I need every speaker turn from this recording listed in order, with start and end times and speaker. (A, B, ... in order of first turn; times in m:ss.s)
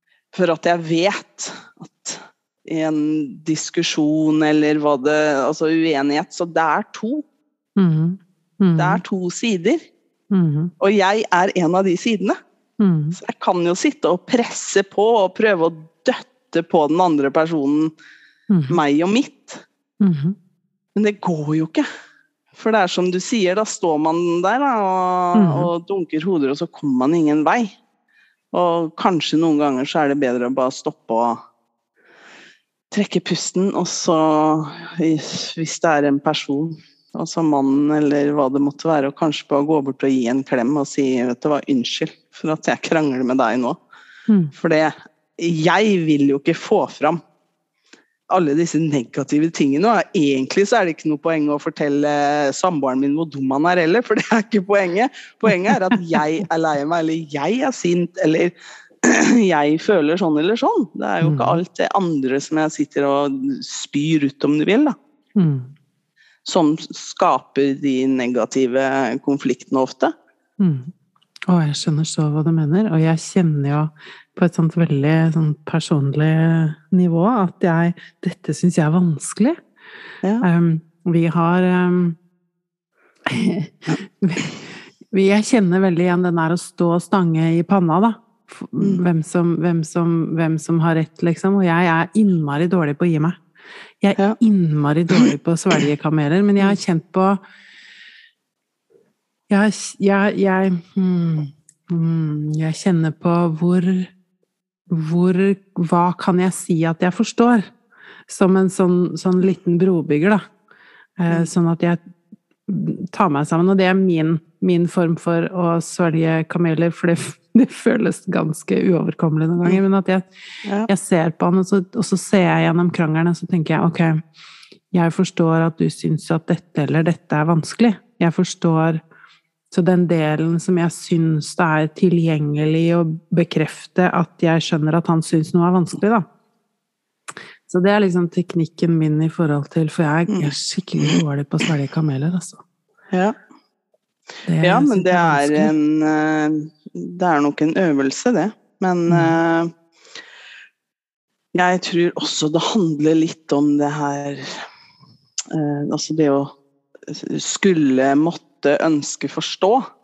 0:00.3-0:07.2 A
0:07.8-0:09.0 B
0:08.8-0:09.8 A
0:10.3-0:10.7 B
0:10.8-0:12.4 A
0:12.8-0:13.2 B
0:13.2-0:17.9 A
0:18.5-0:18.8 B
0:18.7-0:19.6 A
0:20.0-0:20.4 B
0:21.0-0:21.9 A
0:22.6-0:27.7 A
0:25.4-0:25.7 B
0:28.5-0:31.4 A
0:32.9-0:43.8 A
0:44.3-0:44.5 B
0:44.6-0:47.2 A
0:48.3-1:05.0 A
1:01.2-1:01.6 B
1:05.4-1:05.7 B
1:06.4-1:10.1 A
1:10.6-1:10.9 B
1:11.5-1:19.6 B
1:20.4-1:22.2 B
1:23.3-1:33.4 B
1:34.0-1:37.4 B
1:39.5-1:44.1 B
1:44.9-1:47.7 B
1:48.3-1:50.4 B
1:51.2-1:52.0 B
1:52.7-2:00.3 B
2:00.9-2:04.2 B
2:04.9-2:09.0 B
2:09.7-2:16.2 B
2:17.7-2:22.6 B
2:20.3-2:21.2 A
2:24.5-2:25.7 B
2:24.6-2:29.7 A
2:29.1-2:29.3 B
2:31.5-2:34.6 A
2:35.5-2:36.5 A
2:37.1-2:39.8 A